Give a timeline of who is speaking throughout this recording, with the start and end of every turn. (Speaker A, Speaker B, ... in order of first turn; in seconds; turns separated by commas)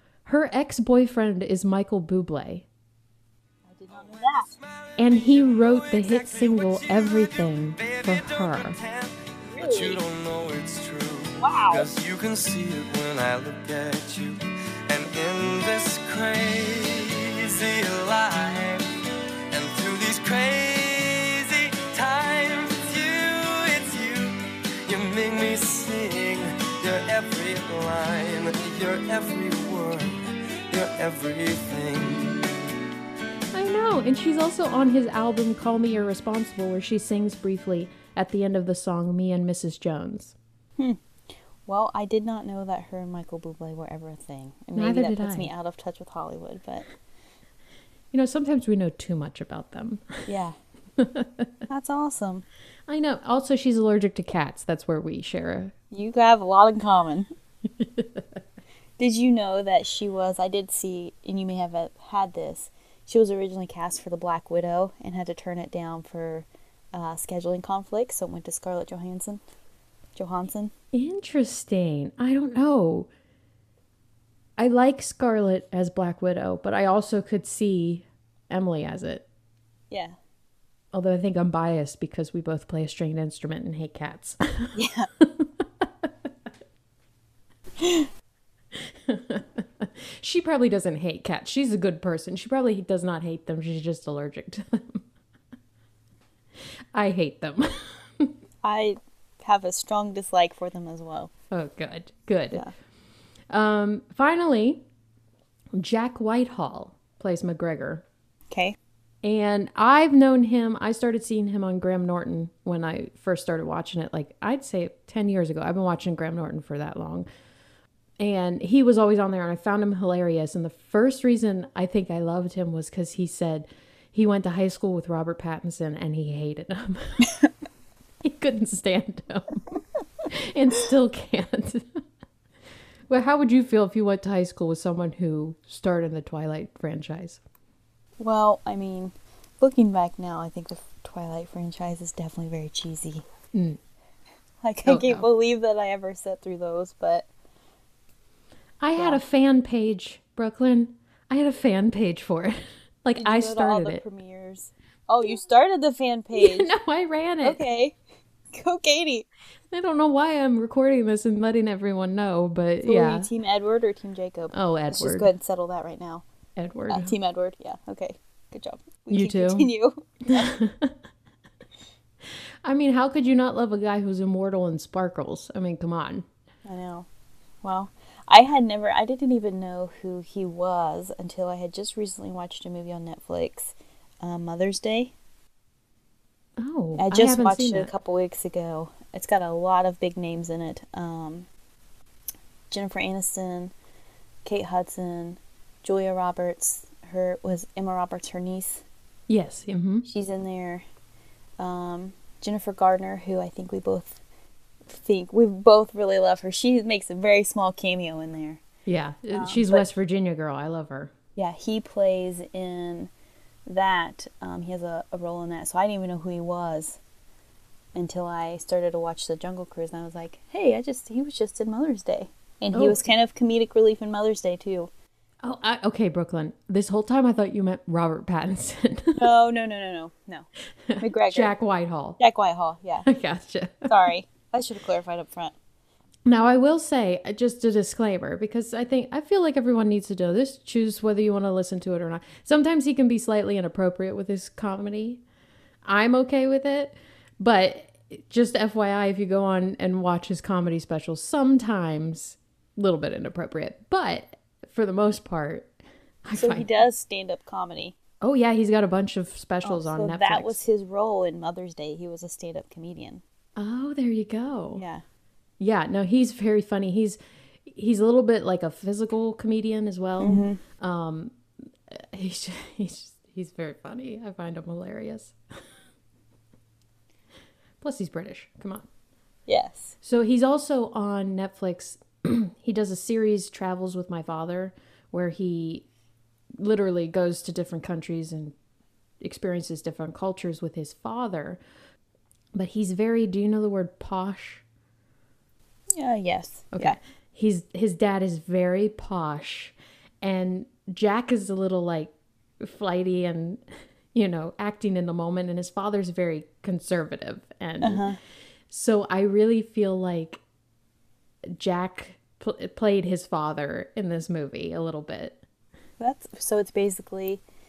Speaker A: 0.2-2.6, Speaker B: 3.7-4.5, Speaker C: 3.9-18.9, Speaker A: 5.0-8.8, Speaker B: 9.4-10.0, Speaker B: 11.4-11.8, Speaker C: 19.5-30.2, Speaker C: 30.7-32.5, Speaker A: 33.5-40.4, Speaker B: 41.7-46.9, Speaker A: 44.8-45.5, Speaker A: 48.1-50.2, Speaker B: 50.3-50.6, Speaker A: 51.0-51.5, Speaker B: 51.7-52.5, Speaker A: 52.9-55.7, Speaker B: 55.9-57.3, Speaker A: 57.7-58.4, Speaker B: 59.0-69.4, Speaker B: 70.2-70.7, Speaker A: 70.9-73.1, Speaker A: 74.6-79.2, Speaker B: 79.9-80.2, Speaker A: 80.9-86.1, Speaker B: 84.8-85.1, Speaker B: 87.8-88.1, Speaker A: 88.7-95.0, Speaker A: 96.9-98.3, Speaker B: 98.6-101.3, Speaker A: 101.5-102.7, Speaker A: 103.5-104.8, Speaker A: 105.7-108.0, Speaker B: 108.5-108.8, Speaker A: 109.2-117.3, Speaker A: 118.2-127.4, Speaker A: 128.2-129.6, Speaker A: 130.3-132.0, Speaker A: 133.1-137.4, Speaker B: 138.2-143.2, Speaker A: 143.5-143.8, Speaker B: 144.6-147.3, Speaker A: 144.8-145.3, Speaker A: 148.8-154.0, Speaker B: 153.2-156.7, Speaker A: 156.4-157.6, Speaker B: 157.4-158.0, Speaker B: 158.5-159.3, Speaker A: 159.7-163.3, Speaker B: 162.8-166.2, Speaker A: 164.5-165.3, Speaker A: 166.6-167.1, Speaker B: 166.9-170.5, Speaker A: 169.1-169.7, Speaker A: 170.4-171.0, Speaker A: 172.6-176.3, Speaker B: 176.7-177.1, Speaker B: 177.6-185.1, Speaker A: 186.6-187.9, Speaker B: 187.0-191.5, Speaker B: 192.7-193.7, Speaker B: 194.4-198.8, Speaker A: 199.3-200.1, Speaker B: 200.1-200.8, Speaker B: 201.6-204.2, Speaker B: 204.9-208.6, Speaker A: 208.9-211.1, Speaker B: 209.3-209.9, Speaker B: 211.4-213.1, Speaker B: 213.7-217.0, Speaker B: 217.9-224.9, Speaker A: 222.7-223.0, Speaker A: 225.4-229.3, Speaker B: 229.2-230.5, Speaker A: 230.9-232.2, Speaker B: 231.0-231.5, Speaker B: 232.2-233.1, Speaker A: 233.1-233.9, Speaker B: 233.9-235.6, Speaker A: 236.3-245.2, Speaker A: 245.8-255.7, Speaker A: 256.3-256.7, Speaker B: 256.4-257.9, Speaker A: 258.2-260.6, Speaker B: 259.6-263.2, Speaker A: 263.6-264.8, Speaker B: 264.8-265.0, Speaker A: 265.6-271.4, Speaker B: 270.2-270.6, Speaker A: 271.9-275.4, Speaker A: 277.8-278.9, Speaker B: 279.5-279.9, Speaker A: 280.0-285.9, Speaker A: 286.6-288.6, Speaker A: 289.2-291.6, Speaker A: 292.6-294.6, Speaker B: 296.0-297.0, Speaker A: 296.7-308.1, Speaker B: 307.8-308.2, Speaker A: 308.7-310.4, Speaker A: 311.5-315.4, Speaker B: 316.0-317.4